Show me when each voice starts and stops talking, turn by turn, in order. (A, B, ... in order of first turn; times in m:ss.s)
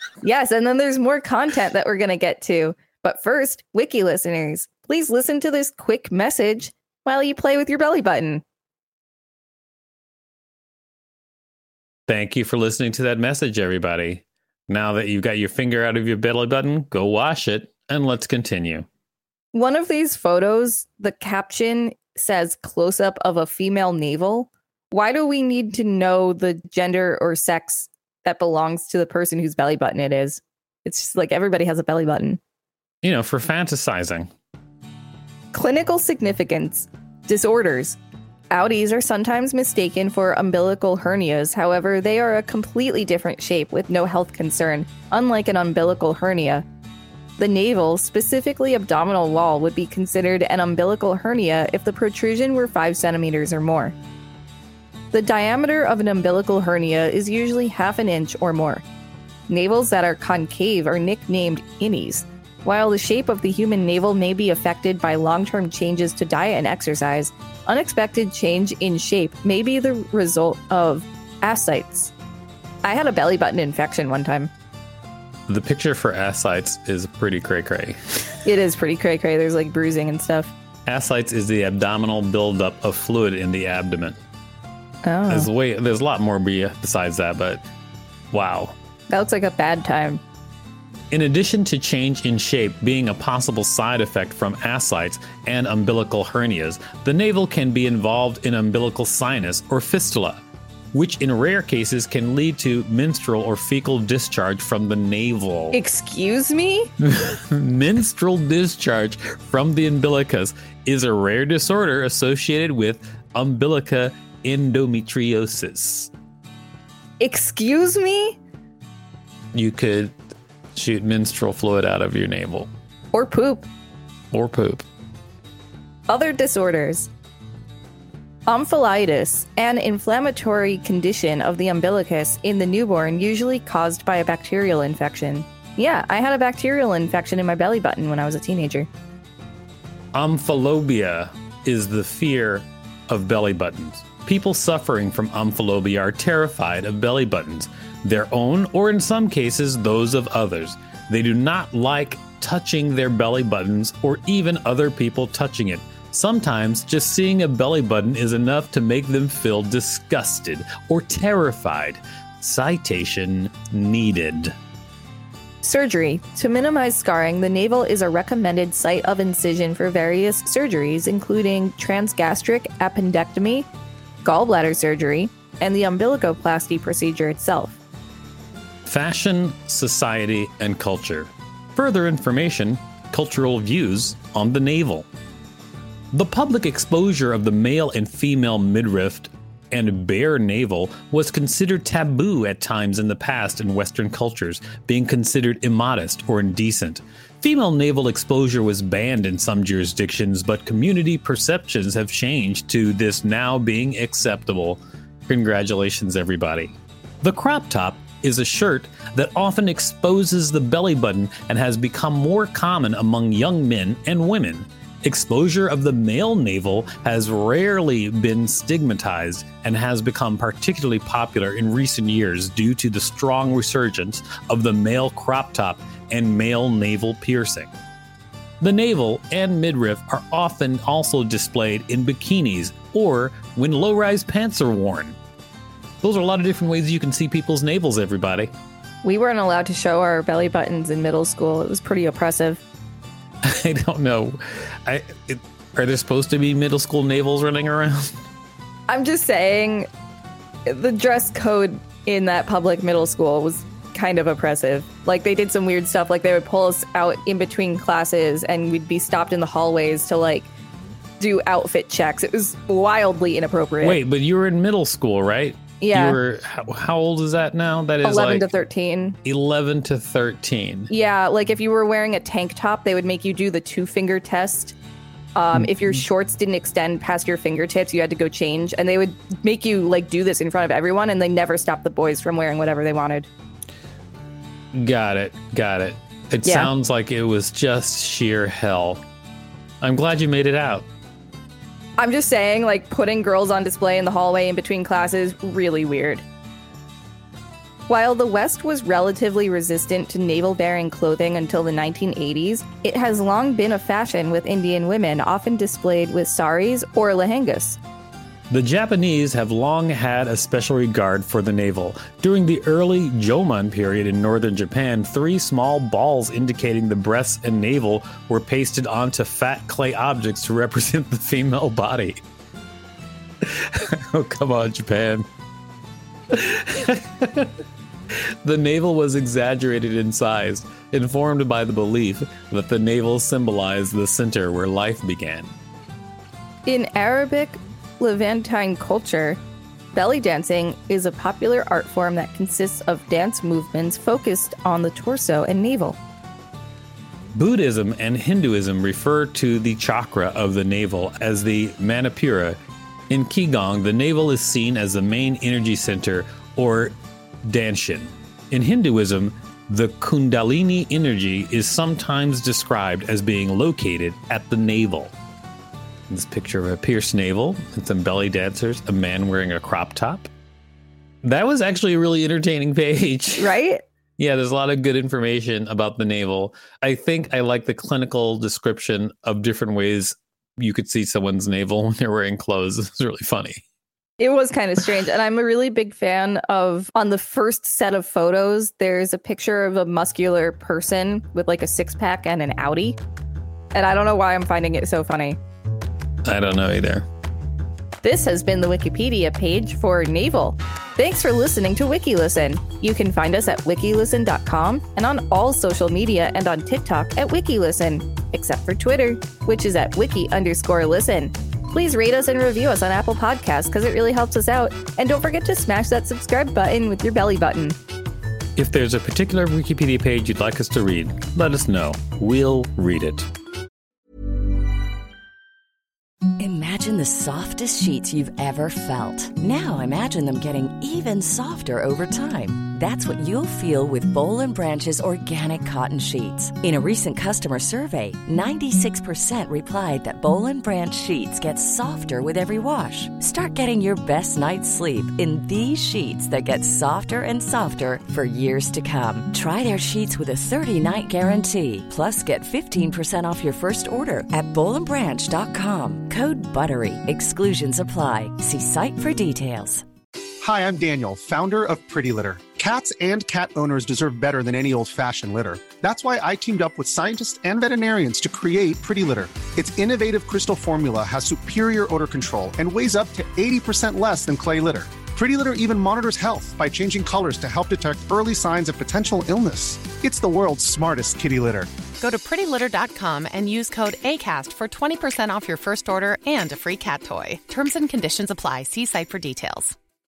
0:00.2-0:08.4 A
0:12.1-0:18.8 B
0:19.5-0:32.4 A
0:33.0-0:34.3 B
0:35.5-0:38.0 A
0:38.5-0:46.6 A
0:47.4-0:53.9 A
0:55.1-0:58.8 A
0:59.5-1:12.1 A
1:12.8-1:14.5 A
1:15.5-1:18.0 B
1:18.4-1:20.5 A
1:20.8-1:24.2 B
1:25.0-1:25.5 A
1:25.3-1:27.6 B
1:28.3-1:28.7 B
1:29.1-1:30.2 A
1:31.1-1:45.8 B
1:45.7-1:46.9 A
1:47.0-1:56.1 B
1:57.2-1:58.4 A
1:59.5-2:00.1 B
2:00.8-2:02.7 B
2:03.1-2:03.7 A
2:04.3-2:04.8 B
2:06.1-2:07.1 A
2:08.5-2:18.9 A
2:20.1-2:44.5 B
2:45.6-2:53.7 A
2:54.2-2:57.8 A
2:58.8-3:05.1 B
3:06.1-3:47.7 B
3:48.6-3:55.2 B
3:56.0-3:58.5 B
3:59.0-4:02.6 A
4:03.4-4:08.1 B
4:08.9-4:09.9 A
4:10.6-4:20.5 A
4:21.2-4:24.0 A
4:23.8-4:28.5 B
4:25.8-4:26.2 A
4:28.0-4:29.2 A
4:29.2-4:30.9 B
4:30.9-4:34.8 A
4:35.4-4:43.3 A
4:44.8-4:49.0 B
4:46.4-4:46.7 A
4:49.8-4:50.9 B
4:52.0-4:56.2 A
4:57.9-5:07.8 A
5:08.5-5:22.2 B
5:23.4-5:25.3 B
5:26.3-5:27.5 B
5:28.4-5:35.5 B
5:36.6-5:39.4 A
5:39.9-5:46.0 A
5:47.3-5:52.6 B
5:53.1-6:05.1 B
6:06.1-6:10.3 B
6:11.2-6:13.6 B
6:13.4-6:13.8 A
6:14.2-6:23.6 B
6:24.2-6:33.0 A
6:33.7-6:35.4 A
6:36.2-6:37.0 B
6:38.0-6:57.8 A
6:58.6-7:03.3 B
7:06.4-7:39.8 C
7:40.4-8:01.7 D
8:02.0-8:09.8 E